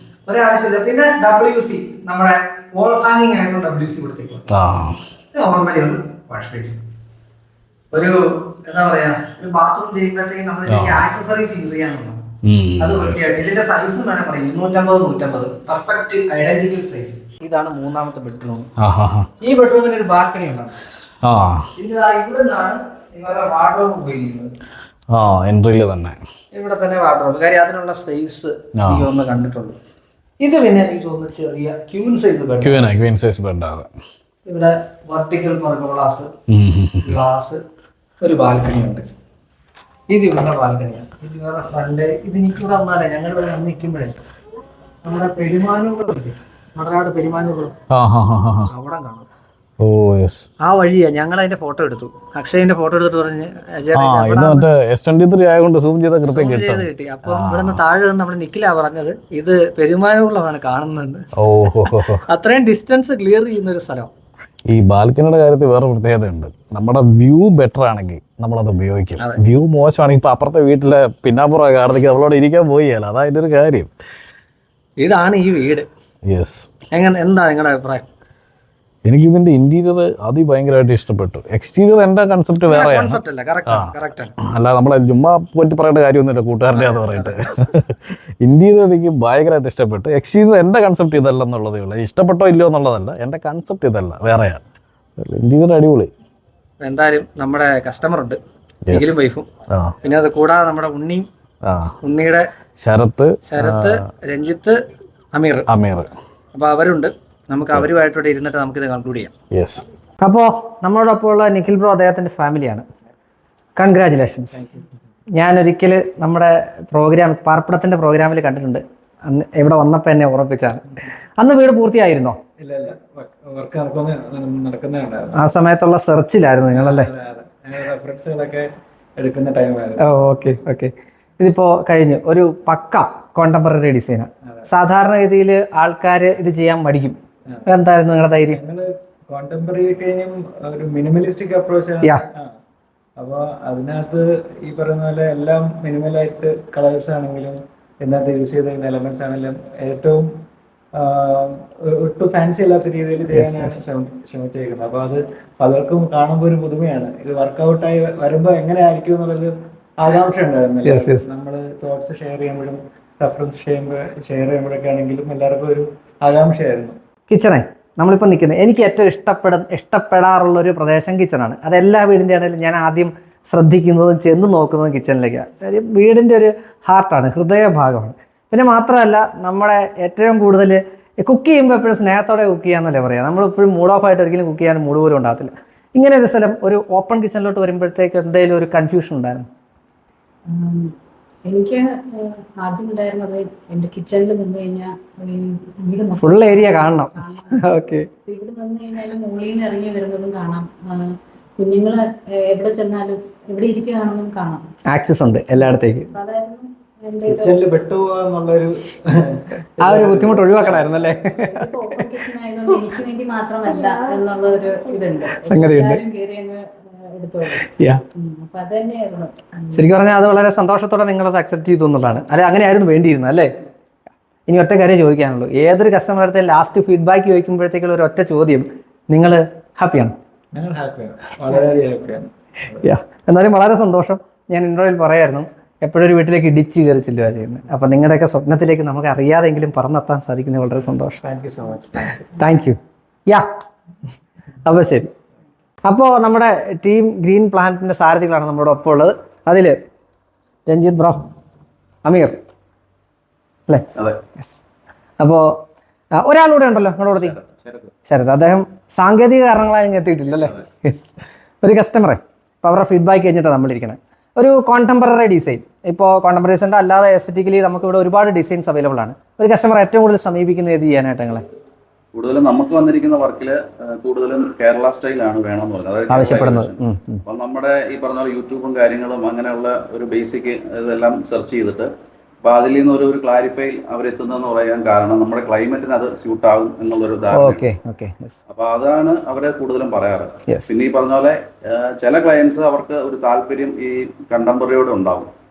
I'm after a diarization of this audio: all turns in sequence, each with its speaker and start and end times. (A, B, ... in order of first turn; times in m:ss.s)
0:00.3-0:04.4 A
0:04.5-0:05.0 B
0:05.3-0:06.8 A
0:07.9-0:12.2 A
0:10.7-0:11.0 B
0:12.4-0:13.3 B
0:12.8-0:18.7 A
0:18.8-0:19.3 B
0:19.4-0:20.8 A
0:21.2-0:21.7 B
0:21.8-0:24.5 A
0:25.1-0:26.2 B
0:26.5-0:29.8 A
0:28.8-0:29.1 B
0:30.4-0:32.8 A
0:32.6-0:33.9 B
0:34.4-0:36.3 A
0:36.5-0:37.2 B
0:37.0-0:37.6 A
0:38.2-0:39.0 A
0:40.1-0:44.2 A
0:45.0-0:47.7 A
0:47.9-0:48.7 B
0:48.7-0:49.3 A
0:49.8-0:50.5 B
0:50.6-0:54.7 A
0:53.9-0:57.8 B
0:56.3-1:01.3 A
1:01.4-1:02.2 B
1:01.8-1:04.1 A
1:04.7-1:13.9 B
1:15.0-1:15.9 A
1:16.3-1:16.7 B
1:16.9-1:18.1 A
1:19.0-1:34.6 B
1:22.7-1:24.3 A
1:26.7-1:27.4 A
1:35.2-1:36.1 B
1:36.8-1:38.4 A
1:38.9-1:39.2 B
1:38.9-1:39.5 A
1:39.7-1:40.0 B
1:40.0-1:41.3 A
1:41.6-1:41.9 B
1:42.0-1:42.5 A
1:42.8-1:44.0 B
1:43.5-1:44.8 A
1:45.3-1:45.6 A
1:45.7-1:46.1 B
1:46.5-1:49.3 A
1:49.5-1:49.8 B
1:50.2-1:52.8 A
1:53.8-1:54.7 A
1:54.5-1:54.8 C
1:55.4-2:02.4 A
2:02.6-2:05.5 C
2:05.3-2:07.1 A
2:06.7-2:10.1 C
2:10.0-2:18.6 A
2:18.5-2:22.5 C
2:23.2-2:30.3 C
2:30.9-2:47.0 C
2:33.3-2:33.8 A
2:40.8-2:41.2 A
2:47.3-3:09.4 A
3:10.5-3:10.9 D
3:11.4-3:17.6 D
3:16.2-3:18.1 A
3:18.2-3:24.6 D
3:24.9-3:26.1 A
3:26.1-3:27.6 D
3:27.2-3:31.2 C
3:29.8-3:32.1 A
3:31.3-3:39.9 D
3:35.4-3:36.0 A
3:37.6-3:38.0 A
3:39.7-3:43.5 A
3:44.5-3:50.1 A
3:50.5-3:52.8 C
3:52.8-4:01.2 A
4:01.2-4:02.3 C
4:02.3-4:03.5 A
4:04.6-4:05.1 A
4:05.8-4:09.8 A
4:10.7-4:11.2 A
4:12.0-4:12.4 A
4:13.7-4:14.6 A
4:15.2-4:15.6 A
4:16.1-4:17.4 A
4:17.3-4:17.9 E
4:18.0-4:31.4 A
4:32.1-4:41.9 E
4:36.1-4:37.2 A
4:42.4-4:47.6 E
4:47.3-4:48.4 A
4:48.5-4:55.3 E